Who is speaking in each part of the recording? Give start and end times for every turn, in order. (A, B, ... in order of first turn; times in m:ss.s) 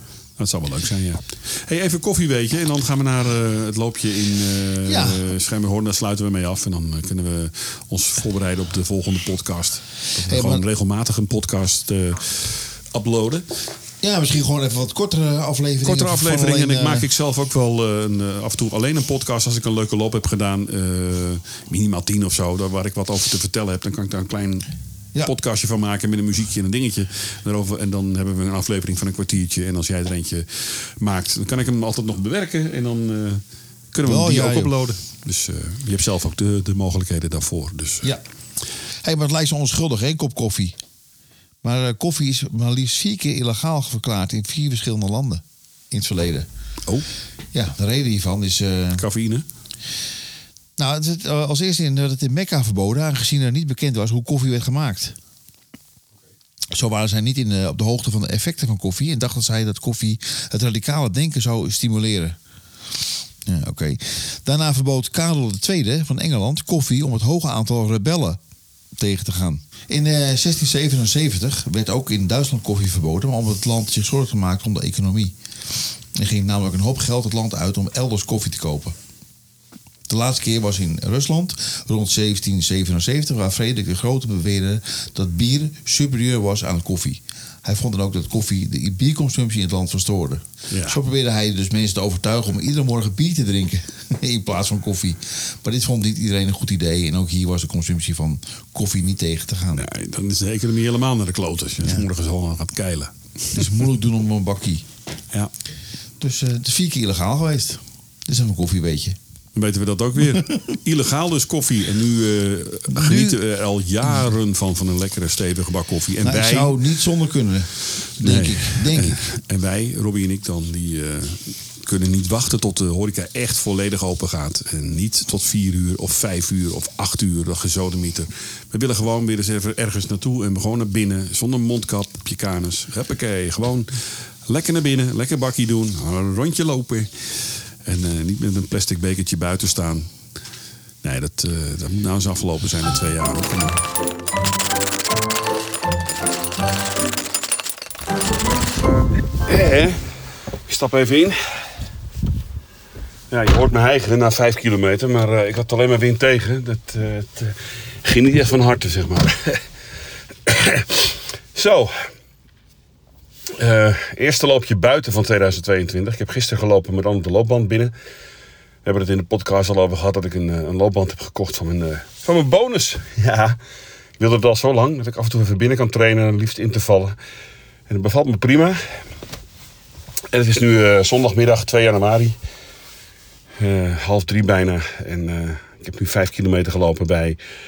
0:00.4-0:13.6 A
0:04.9-0:05.2 B
0:10.2-0:10.6 B
0:14.0-0:17.1 B
0:15.8-0:24.7 A
0:25.2-0:38.1 A
0:34.0-0:34.7 B
0:39.0-0:40.8 B
0:41.6-0:46.5 B
0:47.5-0:49.0 B
0:49.0-0:49.4 A
0:50.8-0:55.2 B
0:56.7-1:02.4 B
1:03.4-1:08.4 B
1:09.0-1:19.0 B
1:20.1-1:39.9 B
1:30.7-1:31.0 A
1:39.8-1:43.8 A
1:41.8-1:42.1 B
1:43.5-1:44.8 B
1:46.2-1:49.2 B
1:49.6-1:56.8 A
1:50.3-1:50.6 B
1:52.9-1:53.4 B
1:56.2-1:59.2 B
1:58.2-2:20.1 A
2:21.0-2:23.8 A
2:29.4-2:31.7 A
2:33.3-2:39.7 A
2:40.4-2:42.1 A
2:43.5-2:47.9 A
2:48.8-2:53.6 A
2:54.2-2:57.2 A
2:57.9-2:59.0 A
3:00.3-3:02.4 A
3:03.6-3:07.4 A